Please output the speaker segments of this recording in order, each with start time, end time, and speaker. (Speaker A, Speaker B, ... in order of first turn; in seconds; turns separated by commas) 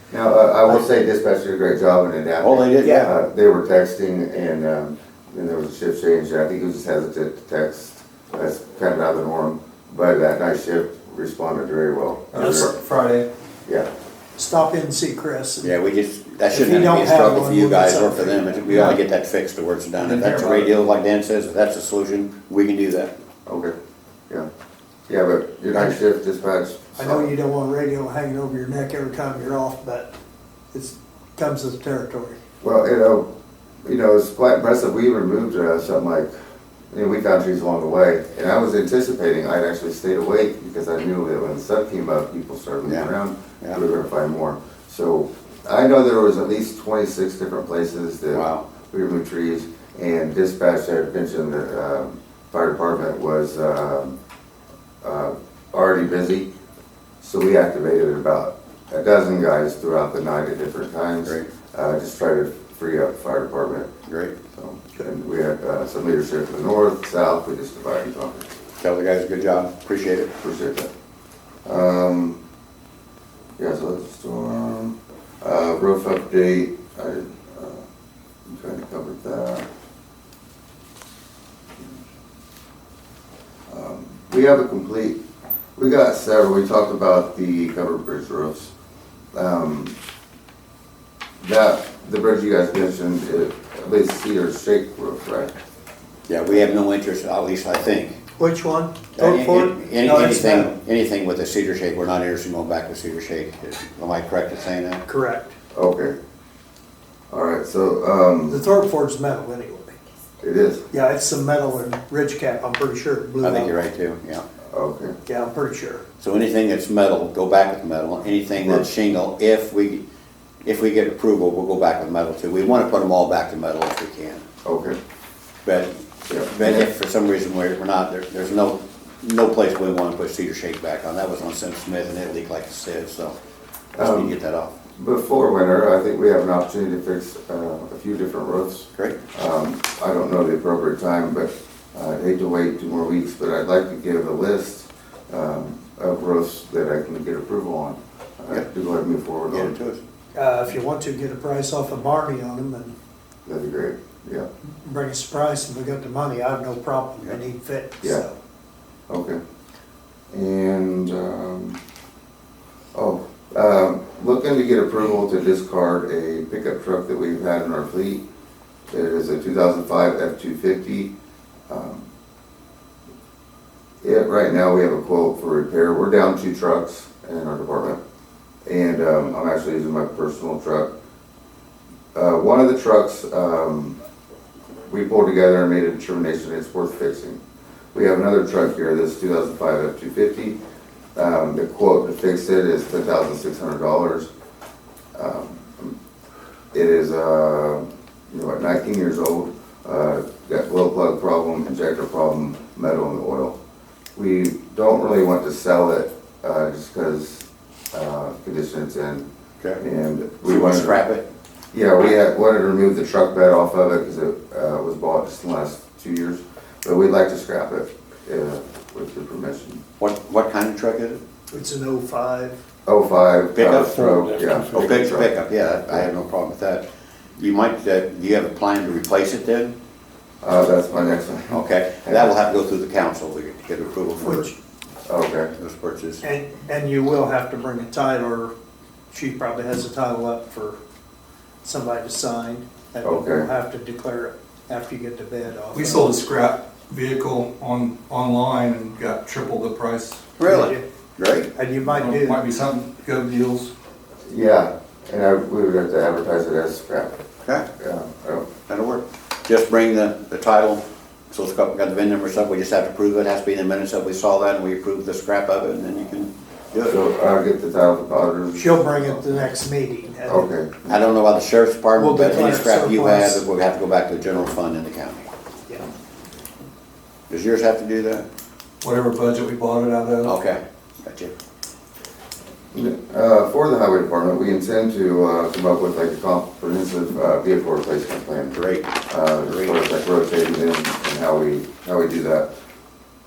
Speaker A: 0.1-12.7, Speaker B: 2.4-3.1, Speaker C: 2.8-3.1, Speaker D: 12.3-13.3, Speaker C: 14.4-15.8, Speaker B: 15.6-23.1, Speaker C: 16.5-19.0, Speaker C: 20.0-20.7, Speaker A: 23.5-23.7, Speaker A: 25.1-27.3, Speaker C: 27.0-30.1, Speaker C: 30.7-32.4, Speaker A: 32.6-33.3, Speaker A: 33.8-36.3, Speaker A: 36.9-54.1, Speaker B: 48.3-48.6, Speaker A: 55.0-56.5, Speaker A: 57.2-63.9, Speaker B: 64.1-64.4, Speaker A: 64.5-68.5, Speaker B: 68.8-70.3, Speaker A: 70.4-70.9, Speaker A: 71.7-72.4, Speaker A: 73.6-77.8, Speaker A: 78.5-79.7, Speaker A: 83.7-85.2, Speaker A: 85.8-88.7, Speaker A: 89.3-90.0, Speaker A: 91.4-95.5, Speaker B: 96.3-98.2, Speaker C: 98.4-100.7, Speaker B: 99.2-105.0, Speaker C: 105.1-105.5, Speaker A: 105.7-106.2, Speaker A: 107.3-108.6, Speaker C: 108.5-110.0, Speaker A: 110.4-110.8, Speaker C: 110.9-113.7, Speaker B: 113.4-114.4, Speaker A: 114.7-115.2, Speaker C: 115.3-116.0, Speaker B: 116.2-120.0, Speaker B: 120.6-124.5, Speaker A: 124.6-125.0, Speaker B: 125.7-125.9, Speaker A: 126.3-126.9, Speaker B: 126.4-133.3, Speaker B: 133.9-134.7, Speaker A: 134.0-134.3, Speaker A: 135.0-149.8, Speaker B: 149.5-150.0, Speaker C: 150.3-153.0, Speaker A: 153.5-154.5, Speaker C: 154.8-158.4, Speaker A: 159.1-159.4, Speaker A: 160.3-161.8, Speaker A: 162.9-168.2, Speaker A: 168.9-171.1, Speaker A: 171.7-172.1, Speaker A: 174.0-178.0, Speaker A: 178.7-180.9, Speaker A: 182.1-184.0, Speaker A: 184.9-187.4, Speaker A: 187.9-190.6, Speaker A: 191.2-194.3, Speaker A: 195.2-195.9, Speaker A: 196.7-203.6, Speaker A: 204.2-209.3, Speaker A: 209.8-211.0, Speaker B: 210.4-211.2, Speaker A: 211.7-219.8, Speaker B: 220.0-221.2, Speaker C: 221.5-222.6, Speaker A: 222.9-225.3, Speaker B: 223.5-226.9, Speaker D: 224.0-224.8, Speaker B: 227.4-229.7, Speaker A: 230.4-232.3, Speaker B: 231.5-234.5, Speaker C: 234.2-234.5, Speaker A: 235.1-235.5, Speaker B: 235.6-236.2, Speaker C: 236.2-238.5, Speaker C: 239.1-240.8, Speaker C: 241.6-246.2, Speaker A: 243.0-243.5, Speaker D: 245.7-250.3, Speaker B: 250.4-251.5, Speaker C: 250.4-250.8, Speaker C: 251.5-252.4, Speaker D: 251.8-253.7, Speaker A: 254.3-257.2, Speaker A: 257.8-258.5, Speaker B: 258.7-267.0, Speaker A: 266.9-269.4, Speaker C: 268.6-270.5, Speaker A: 270.3-271.0, Speaker B: 270.9-275.3, Speaker C: 272.0-273.4, Speaker B: 277.3-278.3, Speaker D: 278.8-280.4, Speaker B: 280.2-281.3, Speaker A: 282.7-288.6, Speaker B: 288.5-289.8, Speaker A: 289.1-292.5